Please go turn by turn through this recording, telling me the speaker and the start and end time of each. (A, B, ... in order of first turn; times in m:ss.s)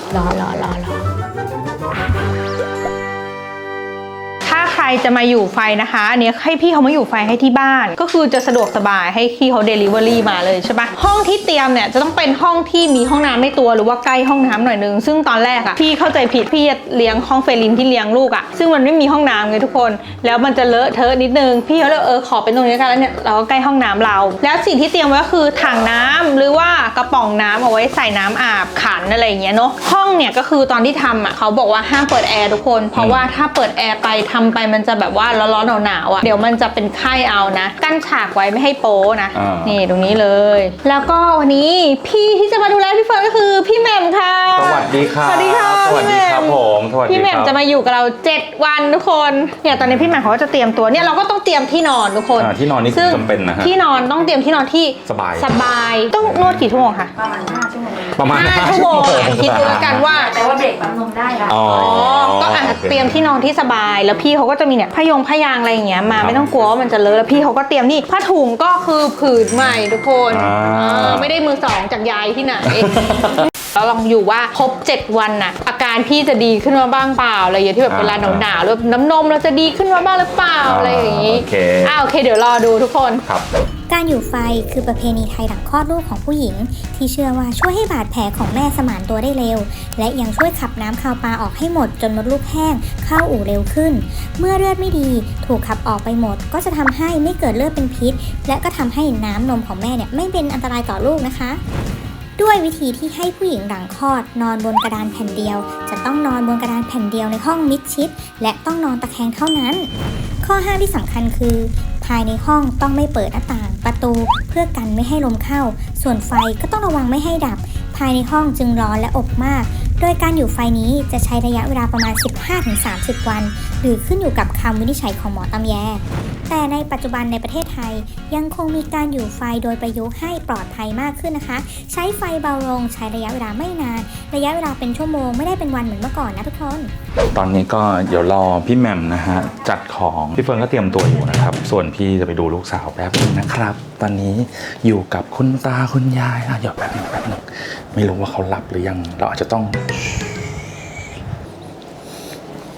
0:00.1-0:01.0 A
0:04.4-0:57.1 A
0:33.0-0:33.3 B
0:39.3-0:39.8 B
0:44.5-0:47.5 B
0:52.3-0:53.7 B
0:55.0-0:55.5 B
0:56.2-0:56.5 B
0:57.1-0:58.1 C
0:58.1-1:00.0 B
0:58.2-1:00.3 A
1:00.1-1:01.6 C
1:01.4-1:03.2 B
1:01.6-1:12.9 A
1:06.1-1:06.5 B
1:10.3-1:11.4 B
1:12.7-1:13.5 B
1:13.6-1:23.2 A
1:17.9-1:18.5 B
1:20.6-1:22.0 B
1:23.9-1:41.6 D
1:42.4-1:49.9 D
1:50.4-2:16.9 D
2:17.3-2:29.8 B